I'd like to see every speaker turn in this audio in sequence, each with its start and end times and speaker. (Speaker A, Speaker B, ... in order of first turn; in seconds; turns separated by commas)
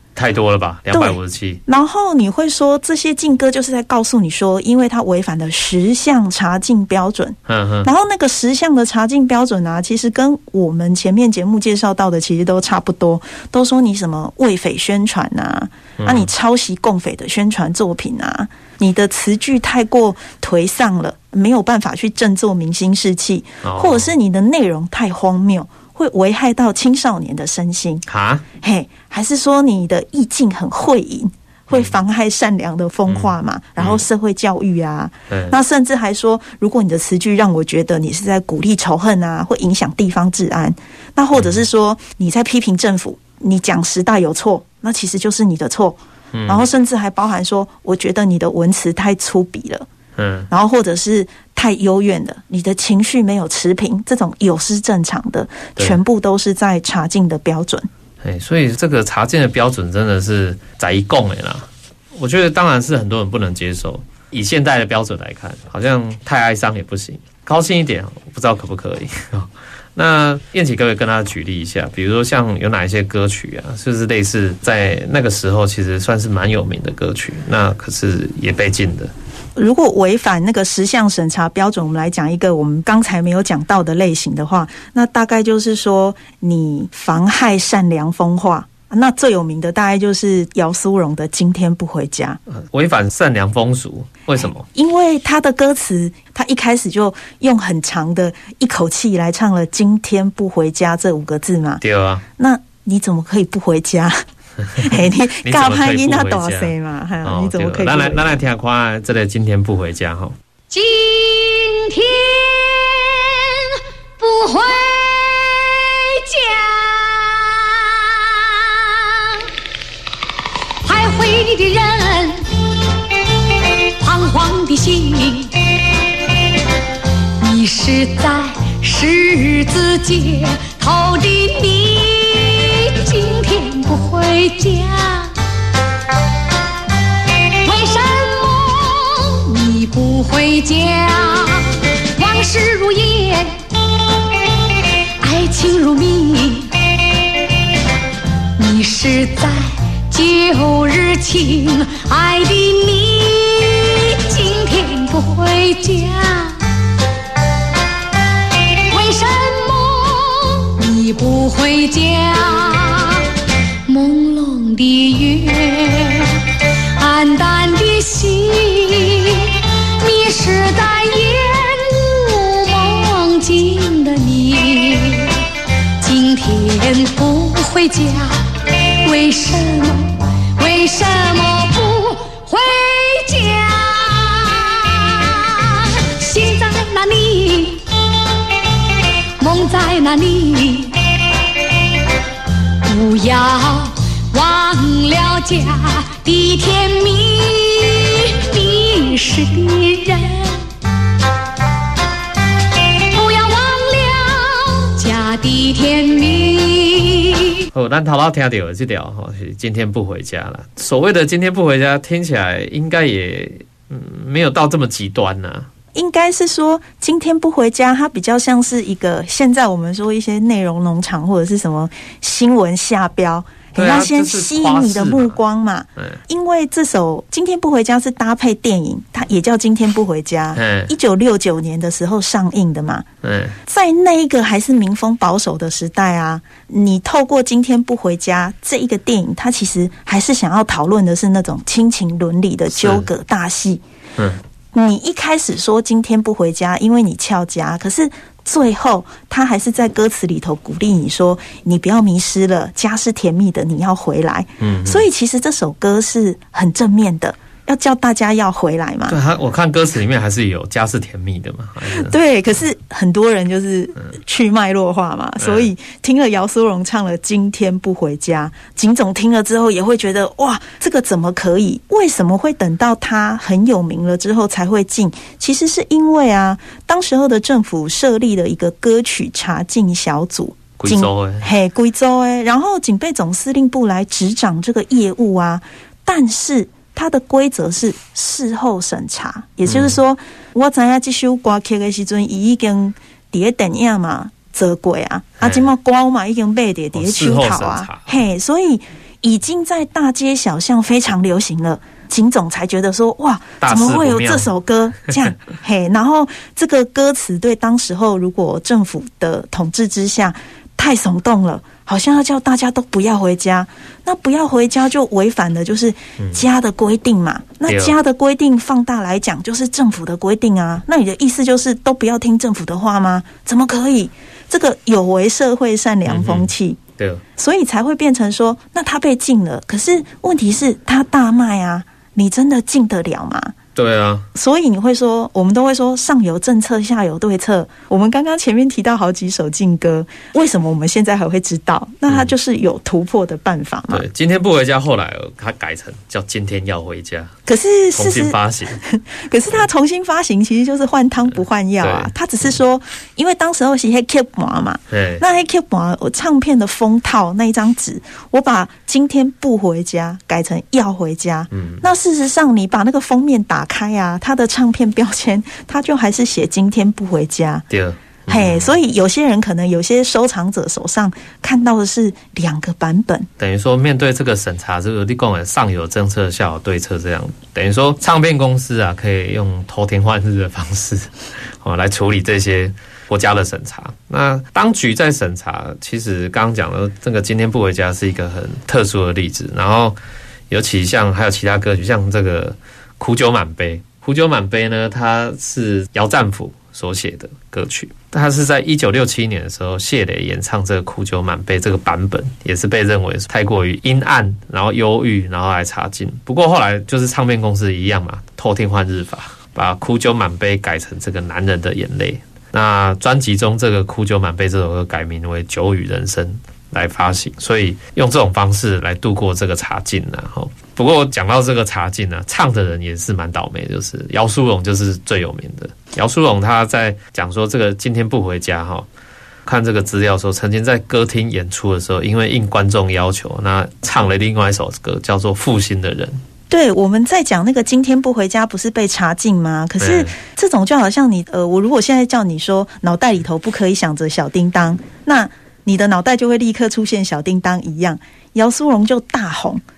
Speaker A: 0.2-1.6, Speaker B: 0.9-28.1, Speaker A: 7.5-7.9, Speaker A: 16.0-16.3, Speaker A: 23.6-24.1, Speaker A: 28.1-28.4, Speaker B: 28.6-49.9, Speaker A: 33.1-34.0, Speaker A: 35.3-35.6, Speaker A: 41.4-41.6, Speaker A: 46.3-46.7, Speaker A: 50.2-50.5, Speaker B: 50.5-57.9, Speaker A: 58.2-79.1, Speaker B: 79.6-92.4, Speaker A: 92.5-94.7, Speaker B: 94.7-101.8, Speaker A: 101.8-102.2, Speaker B: 102.4-104.2, Speaker A: 104.7-106.7, Speaker B: 104.8-108.4, Speaker A: 107.2-110.4, Speaker C: 110.7-112.7, Speaker C: 114.2-115.5, Speaker C: 116.3-117.2, Speaker C: 120.8-122.4, Speaker C: 124.0-125.5, Speaker C: 127.4-135.3, Speaker C: 137.7-141.7, Speaker C: 142.2-143.5, Speaker C: 145.2-146.7, Speaker C: 148.6-149.6, Speaker C: 150.1-156.5, Speaker C: 158.9-163.2, Speaker C: 163.9-166.2, Speaker C: 167.0-169.5, Speaker C: 170.0-175.3, Speaker C: 176.0-178.3, Speaker C: 179.1-180.0, Speaker C: 180.6-184.6, Speaker C: 186.2-187.8, Speaker C: 189.4-190.9, Speaker C: 192.9-200.6, Speaker C: 203.1-207.3, Speaker A: 207.7-215.7, Speaker B: 215.9-233.1, Speaker A: 223.8-225.4, Speaker A: 230.6-230.9, Speaker A: 233.2-233.6, Speaker B: 233.7-243.8, Speaker A: 242.7-243.1, Speaker B: 244.7-259.2, Speaker A: 254.6-255.1, Speaker A: 259.1-262.1, Speaker B: 261.9-326.8, Speaker A: 265.4-265.7, Speaker A: 280.8-281.5, Speaker A: 289.7-290.0, Speaker A: 295.4-295.7, Speaker A: 296.9-298.1, Speaker A: 303.6-304.5, Speaker A: 316.2-316.4, Speaker A: 317.7-317.9, Speaker A: 326.1-327.2, Speaker B: 327.4-333.5, Speaker A: 333.8-334.3, Speaker B: 334.3-344.1, Speaker A: 343.9-347.3, Speaker B: 347.5-367.6, Speaker A: 348.0-348.8, Speaker A: 351.8-352.1, Speaker A: 354.9-355.2, Speaker A: 361.5-361.9, Speaker A: 367.7-368.8, Speaker B: 368.3-373.3, Speaker A: 373.4-390.0, Speaker A: 390.5-428.9, Speaker A: 429.5-436.2, Speaker B: 436.5-449.6, Speaker A: 439.8-440.1